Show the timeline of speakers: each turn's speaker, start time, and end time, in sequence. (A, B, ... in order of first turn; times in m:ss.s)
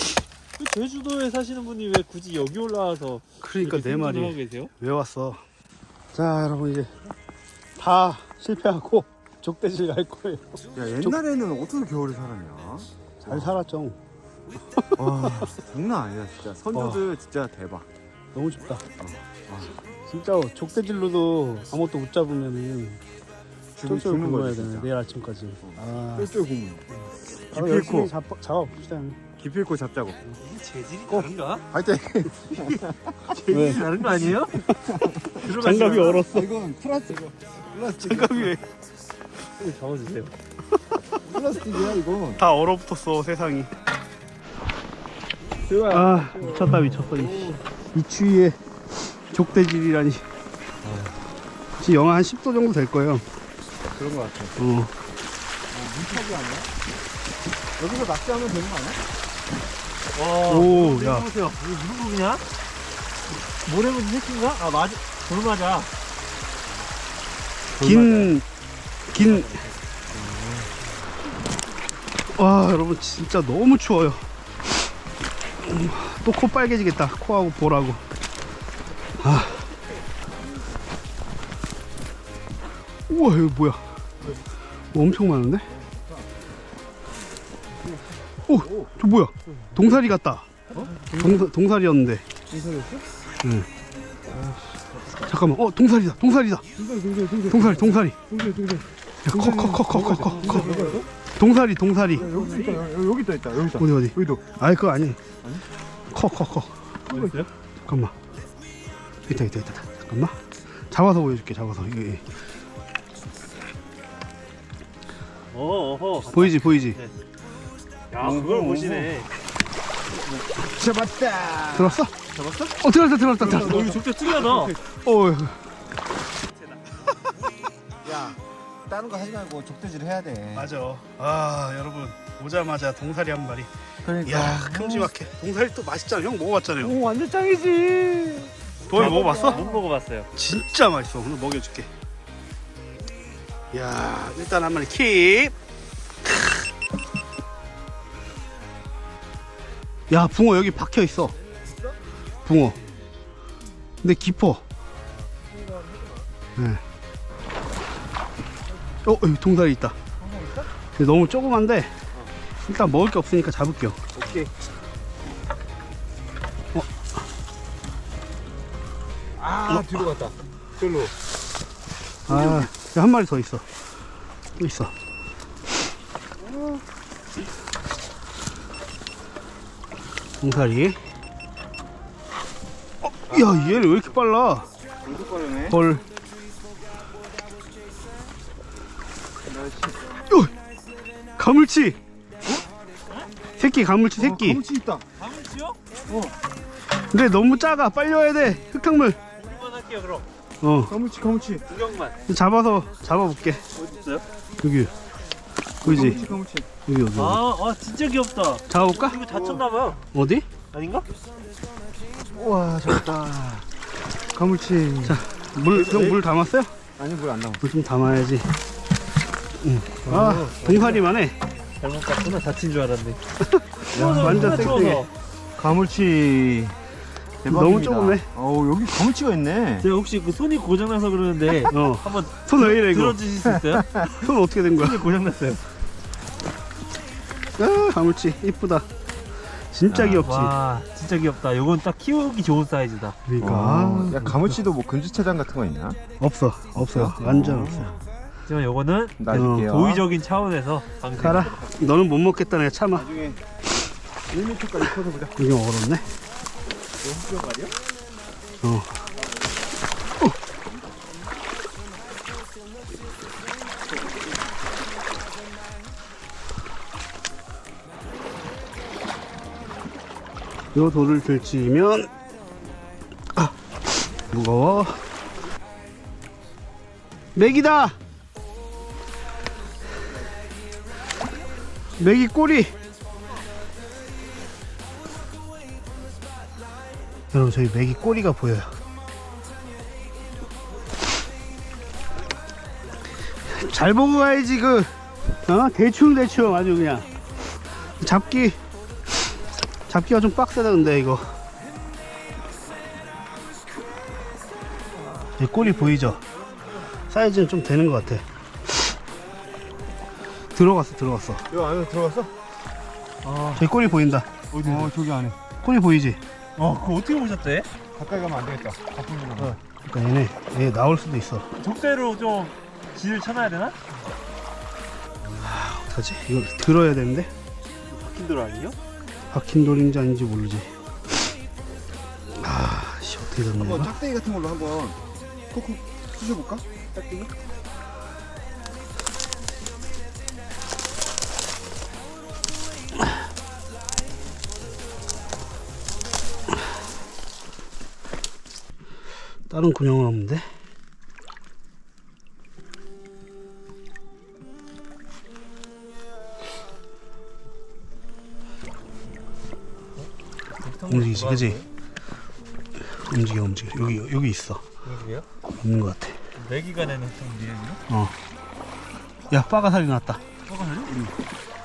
0:00.6-0:04.7 A
0:03.4-0:05.4 B
0:06.1-0:06.9 B
0:07.8-0:11.2 B
0:10.8-0:13.6 C
0:13.3-0:14.0 B
0:14.8-0:15.5 B
0:15.0-0:17.9 C
0:16.7-0:17.0 B
0:18.3-0:18.9 B
0:19.0-0:19.8 C
0:20.1-0:23.0 B
0:23.8-0:24.9 C
0:23.9-0:26.3 B
0:25.6-0:26.9 C
0:27.5-0:28.1 C
0:27.5-0:29.2 B
0:29.4-0:30.2 C
0:30.3-0:31.7 A
0:31.7-0:33.2 C
0:33.3-0:34.9 B
0:33.3-0:34.6 A
0:34.7-0:35.5 C
0:35.4-0:36.2 A
0:35.4-0:36.5 B
0:36.0-0:38.6 C
0:38.0-0:38.6 B
0:39.6-0:40.3 A
0:41.2-0:42.4 C
0:42.4-0:43.7 B
0:45.7-0:46.8 A
0:45.9-0:48.6 B
0:46.2-0:47.6 C
0:49.2-0:50.2 B
0:50.8-0:51.2 C
0:51.8-0:53.3 B
0:53.9-0:54.6 C
0:54.6-0:54.9 B
0:55.7-0:56.7 C
0:57.8-0:59.0 C
1:00.1-1:02.4 A
1:00.5-1:01.3 B
1:03.6-1:05.9 A
1:07.8-1:08.3 C
1:07.8-1:08.5 B
1:09.1-1:09.5 B
1:09.2-1:09.7 A
1:10.1-1:10.8 C
1:12.3-1:14.3 B
1:15.6-1:18.0 B
1:19.2-1:19.7 B
1:23.1-1:23.8 B
1:24.9-1:25.7 B
1:25.7-1:26.3 C
1:27.7-1:28.9 C
1:28.5-1:30.5 B
1:29.5-1:30.0 C
1:30.7-1:31.5 C
1:31.2-1:32.3 B
1:32.5-1:33.1 C
1:33.4-1:33.7 B
1:34.2-1:35.4 C
1:35.3-1:36.7 B
1:36.8-1:41.1 C
1:37.5-1:38.2 B
1:39.2-1:40.8 B
1:40.1-1:41.1 A
1:41.4-1:42.3 B
1:42.1-1:44.4 C
1:42.3-1:42.8 A
1:43.8-1:45.2 B
1:46.1-1:46.9 B
1:47.1-1:47.5 A
1:47.1-1:47.4 C
1:47.9-1:48.2 B
1:49.3-1:52.4 B
1:55.5-1:57.1 A
1:56.3-1:57.0 B
1:58.1-1:59.3 A
1:58.2-1:59.1 C
2:00.1-2:02.8 C
2:01.8-2:02.1 B
2:02.8-2:04.0 B
2:03.4-2:04.8 C
2:03.5-2:04.8 A
2:04.9-2:05.7 B
2:06.6-2:06.9 A
2:08.0-2:10.7 C
2:10.6-2:13.7 B
2:14.0-2:15.1 C
2:14.2-2:17.0 B
2:16.8-2:19.8 C
2:18.9-2:19.6 B
2:18.9-2:20.3 A
2:20.3-2:21.9 B
2:23.7-2:25.5 B
2:26.2-2:26.6 B
2:30.1-2:31.4 B
2:31.6-2:32.0 C
2:32.5-2:32.8 B
2:34.0-2:34.6 B
2:35.3-2:36.3 C
2:36.6-2:36.8 B
2:39.0-2:40.0 B
2:40.2-2:40.7 C
2:41.0-2:41.9 B
2:42.6-2:44.0 B
2:44.2-2:44.5 C
2:46.7-2:47.0 B
2:49.4-2:51.1 C
2:52.3-2:53.7 B
2:52.3-2:52.7 C
2:54.6-2:54.9 B
2:56.4-2:56.8 C
3:00.4-3:01.0 B
3:03.0-3:04.7 B
3:03.3-3:03.8 C
3:05.0-3:05.8 C
3:05.7-3:06.0 B
3:09.4-3:10.1 C
3:11.4-3:12.0 B
3:13.6-3:14.6 B
3:14.2-3:15.0 C
3:15.2-3:15.8 A
3:16.1-3:16.4 C
3:17.1-3:19.2 B
3:19.4-3:20.3 A
3:20.6-3:20.9 B
3:20.9-3:21.6 C
3:21.7-3:22.2 A
3:22.3-3:23.6 B
3:23.8-3:24.3 A
3:24.6-3:24.9 B
3:25.8-3:26.7 C
3:25.8-3:26.2 B
3:26.9-3:27.4 B
3:27.2-3:30.0 A
3:28.7-3:29.2 B
3:29.2-3:29.6 C
3:30.1-3:30.5 B
3:30.7-3:31.1 A
3:32.3-3:33.7 C
3:34.3-3:36.2 C
3:35.0-3:36.7 B
3:37.0-3:37.6 C
3:37.6-3:38.5 B
3:39.6-3:41.4 B
3:40.1-3:41.0 A
3:41.8-3:43.2 A
3:43.5-3:45.0 B
3:43.9-3:45.1 A
3:43.9-3:45.0 C
3:45.6-3:46.8 C
3:47.4-3:49.9 C
3:47.5-3:48.3 B
3:49.8-3:53.9 A
3:51.7-3:53.2 B
3:53.5-3:54.0 C
3:54.0-3:55.0 B
3:54.7-3:55.6 A
3:57.6-3:58.9 B
3:59.5-4:00.5 B
3:59.9-4:00.3 C
4:00.1-4:03.2 A
4:03.3-4:04.6 B
4:03.4-4:06.0 C
4:06.2-4:08.0 B
4:06.8-4:08.0 C
4:08.5-4:11.6 A
4:09.2-4:10.1 C
4:09.3-4:09.7 B
4:11.2-4:13.1 B
4:11.2-4:12.0 C
4:12.9-4:13.4 C
4:14.3-4:15.5 C
4:15.4-4:16.1 B
4:17.0-4:17.7 C
4:18.6-4:18.9 B
4:30.7-4:32.1 B
4:34.3-4:35.0 B
4:37.4-4:38.0 B
4:42.0-4:42.7 B
4:47.3-4:48.8 B
4:53.3-4:54.9 B
4:55.5-4:57.1 B
4:57.8-4:58.6 B
4:59.9-5:01.4 B
5:05.4-5:06.2 B
5:05.7-5:06.2 A
5:07.1-5:08.2 B
5:10.5-5:11.5 B
5:11.5-5:12.3 C
5:13.2-5:13.7 A
5:13.6-5:14.3 B
5:14.5-5:14.9 A
5:14.6-5:15.4 C
5:15.6-5:16.2 B
5:16.6-5:17.7 A
5:18.0-5:19.6 C
5:19.8-5:21.5 B
5:21.6-5:23.8 A
5:25.4-5:27.3 B
5:27.9-5:28.8 A
5:29.3-5:30.7 B
5:32.3-5:34.0 B
5:33.5-5:35.0 C
5:35.5-5:36.7 C
5:36.9-5:37.3 A
5:49.5-5:50.5 B
6:00.6-6:01.7 A
6:00.9-6:01.6 B
6:02.9-6:04.6 B
6:04.8-6:05.3 A
6:05.6-6:06.2 B
6:06.4-6:07.8 A
6:07.9-6:08.1 B
6:09.3-6:10.2 B
6:10.5-6:11.0 A